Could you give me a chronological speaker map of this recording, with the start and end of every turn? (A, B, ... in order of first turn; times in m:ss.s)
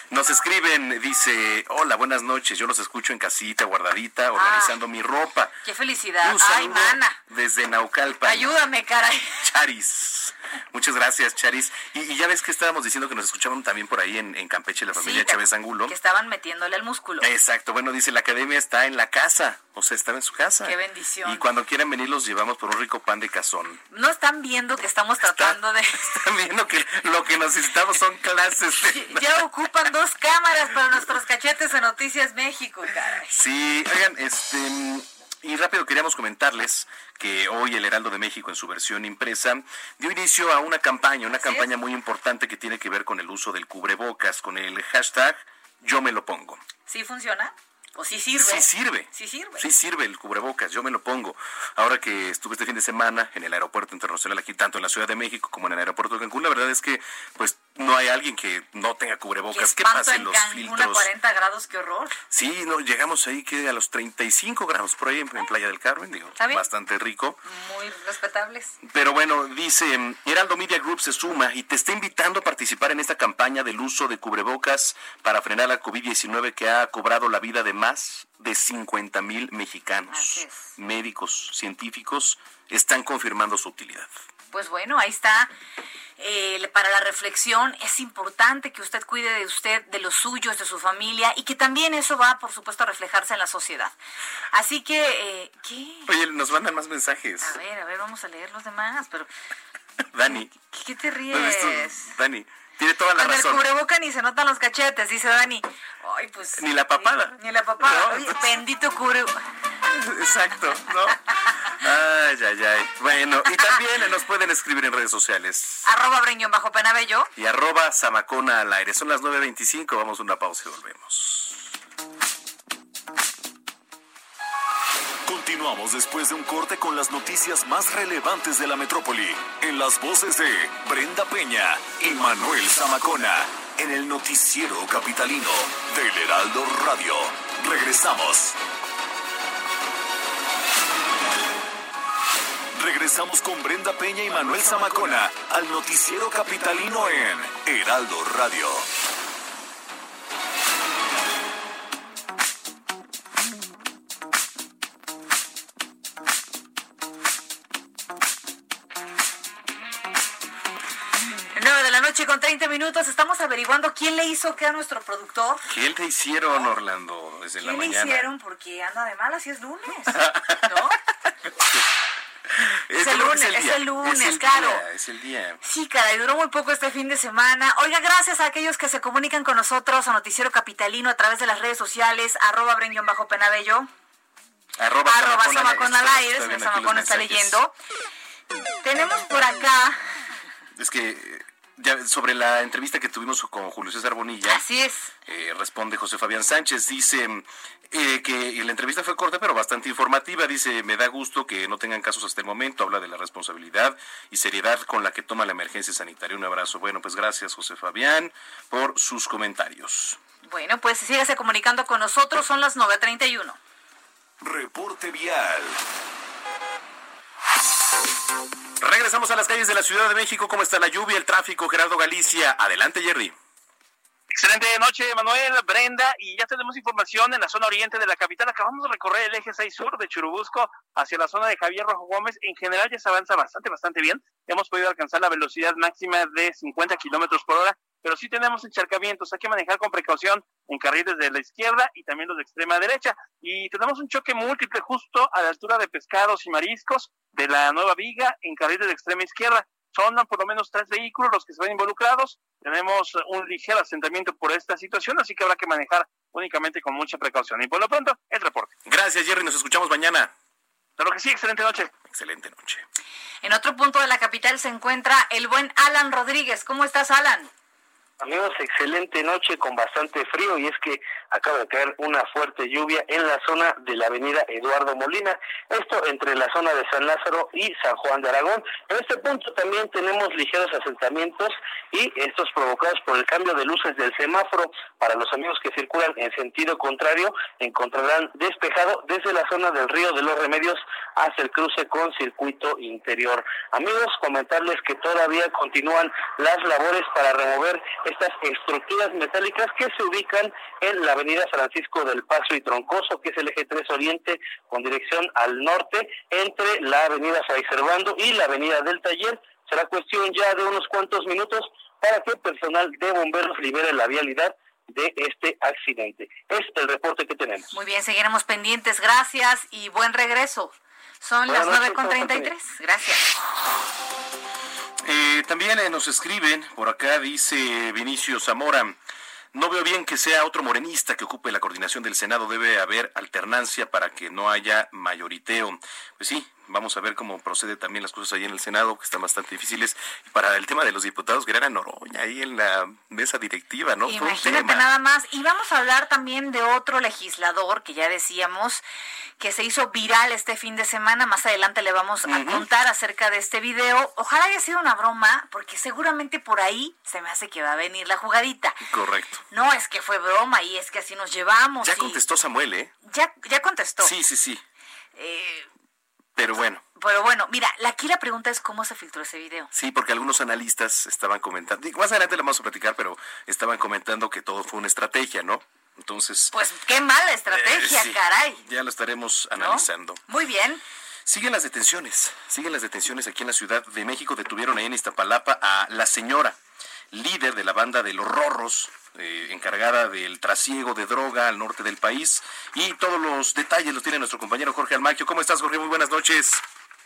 0:00.1-0:05.5 A
0:04.3-0:04.7 B
0:05.6-0:07.2 B
0:06.2-0:08.5 A
0:08.2-0:09.4 B
0:09.4-0:15.9 A
0:15.0-0:17.2 B
0:17.2-0:23.8 A
0:20.6-0:21.4 B
0:23.9-0:26.2 B
0:25.2-0:29.5 A
0:28.9-0:33.4 B
0:33.3-0:46.6 A
0:41.4-0:41.7 B
0:46.9-0:49.6 B
0:48.4-1:01.1 A
0:59.5-1:02.2 B
1:02.3-1:07.4 A
1:06.4-1:06.6 B
1:07.4-1:08.7 B
1:08.8-1:24.1 A
1:20.1-1:20.7 B
1:24.5-1:25.5 B
1:26.2-1:33.9 B
1:34.5-1:36.1 B
1:36.1-1:37.6 A
1:37.4-1:39.3 B
1:40.1-1:40.5 A
1:40.7-1:42.1 B
1:41.3-1:43.6 A
1:43.1-1:49.4 B
1:46.6-1:48.4 A
1:49.9-1:55.8 A
1:55.8-1:57.3 B
1:57.4-2:01.7 A
2:05.2-2:18.6 C
2:22.7-2:28.8 C
2:41.5-2:45.6 B
2:45.7-2:48.3 A
2:47.6-2:51.0 B
2:50.2-2:50.8 A
2:52.5-2:55.6 A
2:53.0-2:54.8 B
2:55.6-3:03.9 B
3:04.8-3:07.6 A
3:05.0-3:07.7 B
3:08.8-3:10.1 B
3:10.8-3:14.6 A
3:14.4-3:15.1 B
3:15.2-3:30.2 A
3:30.4-3:33.6 B
3:34.4-3:35.8 C
3:38.8-3:43.3 A
3:44.3-4:18.7 D
4:18.8-4:20.3 A
4:21.0-4:21.9 D
4:22.1-4:22.8 A
4:23.4-4:27.5 B
4:28.2-5:17.7 E
5:17.7-5:23.2 B
5:21.5-5:22.5 E
5:25.0-5:29.0 A
5:29.5-5:44.9 A
5:44.0-5:48.8 B
5:49.4-5:58.8 B
5:52.3-5:52.6 A
5:58.9-5:59.4 A
5:59.5-6:02.2 B
6:01.8-6:02.9 A
6:03.0-6:04.1 B
6:04.0-6:04.6 A
6:05.1-6:05.7 B
6:06.4-6:06.8 A
6:07.0-6:09.7 B
6:09.7-6:16.5 A
6:16.5-6:18.6 B
6:17.5-6:20.2 A
6:19.6-6:20.8 B
6:21.2-6:26.6 A
6:27.1-6:36.6 A